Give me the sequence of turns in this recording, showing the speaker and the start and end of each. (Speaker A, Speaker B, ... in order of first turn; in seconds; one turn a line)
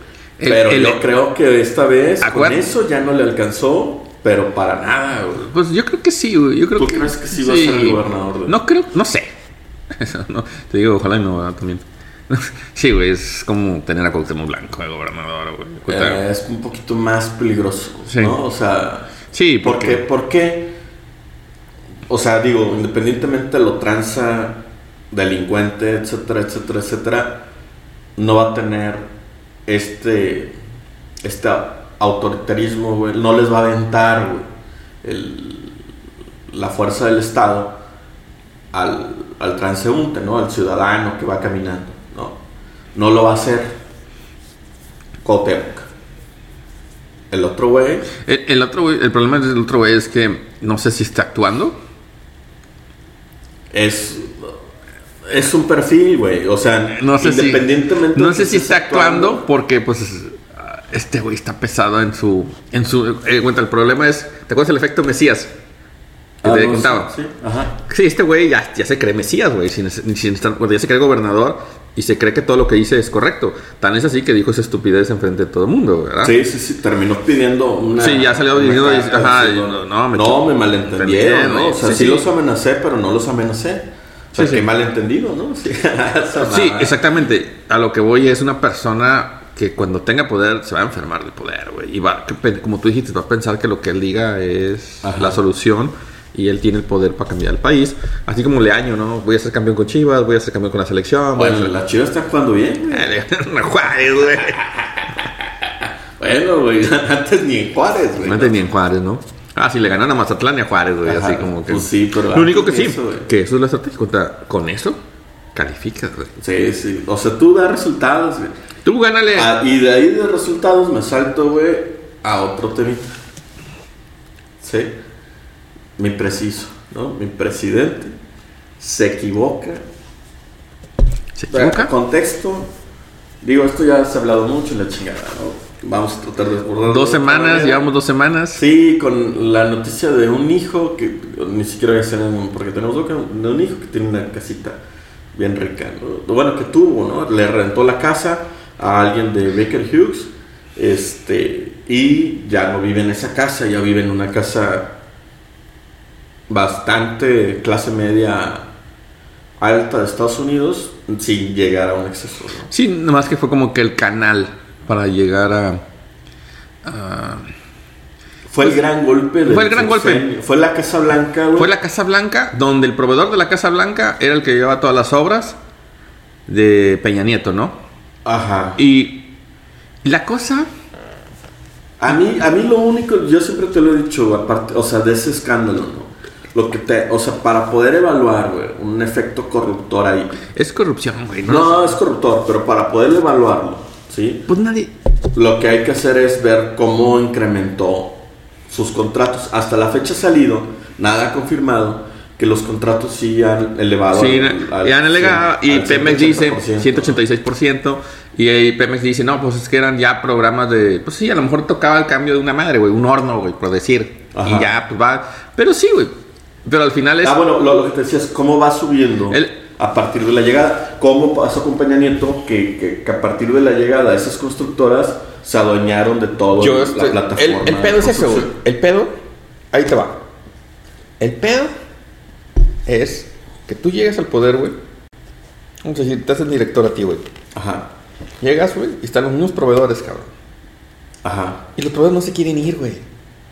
Speaker A: 0.4-1.0
Speaker B: 0.4-5.5
Speaker A: 2.2-2.7
Speaker A: 5.5-9.3
Speaker B: 6.8-8.6
Speaker A: 9.9-16.2
Speaker B: 15.9-20.7
Speaker A: 18.1-18.4
Speaker A: 19.3-20.0
Speaker B: 22.1-27.5
Speaker B: 28.2-29.1
Speaker B: 29.7-30.5
Speaker B: 31.2-34.4
Speaker B: 35.0-35.9
Speaker B: 36.5-37.8
Speaker B: 38.7-42.4
Speaker B: 42.9-43.8
Speaker B: 45.2-45.9
Speaker B: 47.3-48.1
Speaker A: 48.2-51.8
Speaker B: 53.7-54.5
Speaker B: 55.2-59.4
Speaker A: 57.0-65.5
Speaker A: 66.4-67.1
Speaker B: 66.4-67.8
Speaker A: 67.9-76.3
Speaker B: 76.2-87.0
Speaker A: 78.0-82.3
Speaker A: 84.3-84.7
Speaker A: 86.4-101.7
Speaker B: 95.0-95.4
Speaker B: 101.3-103.1
Speaker A: 102.9-105.2
Speaker B: 106.2-108.6
Speaker A: 108.2-115.0
Speaker B: 111.0-113.3
Speaker A: 115.5-116.3
Speaker B: 116.4-118.5
Speaker A: 118.8-119.5
Speaker B: 119.3-123.0
Speaker B: 124.6-124.9
Speaker B: 126.0-128.2
Speaker B: 128.8-129.8
Speaker A: 131.4-131.9
Speaker B: 131.5-132.7
Speaker B: 133.4-137.9
Speaker A: 136.8-138.6
Speaker B: 138.5-144.8
Speaker B: 145.3-154.9
Speaker B: 156.5-158.7
Speaker B: 159.6-162.7
Speaker A: 162.7-165.8
Speaker A: 166.8-167.5
Speaker B: 168.5-171.7
Speaker A: 169.4-170.3
Speaker A: 171.6-175.6
Speaker A: 176.5-177.8
Speaker B: 178.2-178.8
Speaker A: 178.8-179.3
Speaker A: 180.0-180.7
Speaker B: 182.0-190.4
Speaker A: 190.5-192.0
Speaker B: 191.4-194.5
Speaker A: 194.5-194.9
Speaker B: 195.3-207.2
Speaker A: 204.1-216.1
Speaker B: 214.3-214.7
Speaker A: 216.6-217.4
Speaker B: 217.2-228.5
Speaker A: 219.3-219.6
Speaker A: 226.6-229.1
Speaker A: 229.7-230.2
Speaker A: 231.2-231.7
Speaker A: 232.8-234.8
Speaker A: 235.8-237.2
Speaker B: 237.5-237.9
Speaker A: 238.4-240.3
Speaker B: 241.2-241.6
Speaker A: 241.8-243.0